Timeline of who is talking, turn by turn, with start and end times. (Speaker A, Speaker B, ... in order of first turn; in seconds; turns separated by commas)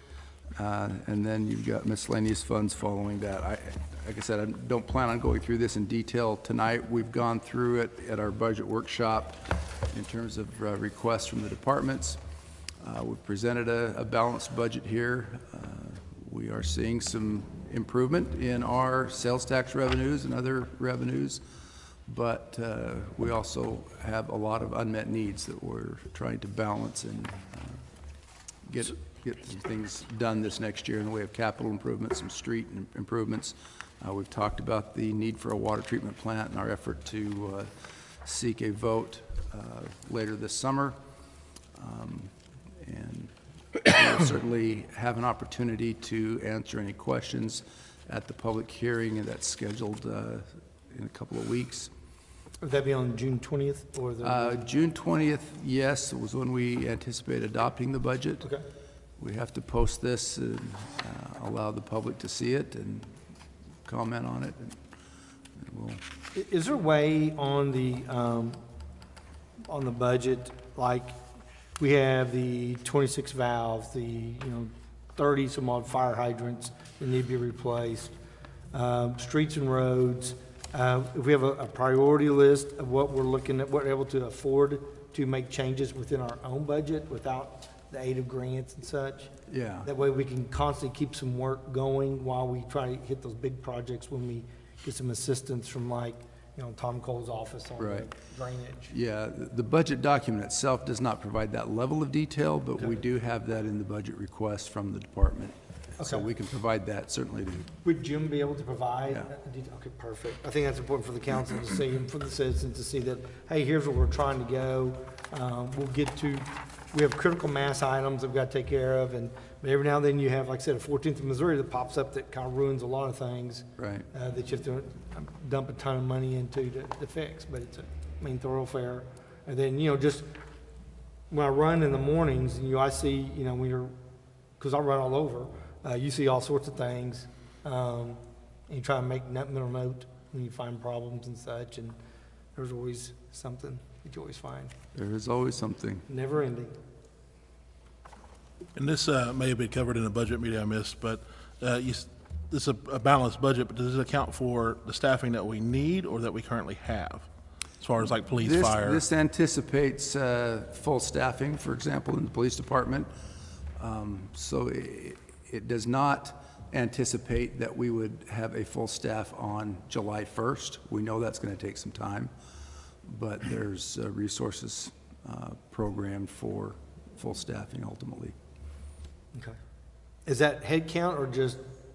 Speaker A: 0.6-12.2, Speaker A: 12.8-21.4, Speaker A: 22.1-27.8, Speaker A: 28.6-37.7, Speaker A: 38.2-41.0, Speaker A: 41.8-51.9, Speaker B: 52.6-54.6, Speaker A: 54.2-58.5, Speaker A: 59.2-63.1, Speaker A: 63.8-64.8, Speaker A: 65.6-66.0, Speaker B: 66.3-68.6, Speaker B: 69.7-71.2, Speaker B: 71.8-78.2, Speaker B: 78.7-89.3, Speaker A: 89.5-89.9, Speaker B: 89.8-98.9, Speaker A: 97.8-98.1, Speaker A: 98.9-107.7, Speaker B: 106.0-106.3, Speaker B: 107.8-130.3, Speaker A: 123.8-124.1, Speaker B: 131.3-133.9, Speaker B: 134.6-142.0, Speaker B: 142.6-144.7, Speaker A: 144.9-146.1, Speaker B: 146.1-146.7, Speaker C: 148.8-157.2, Speaker C: 157.8-159.0, Speaker A: 158.3-163.1, Speaker A: 163.8-172.3, Speaker A: 173.0-178.3, Speaker B: 180.2-181.6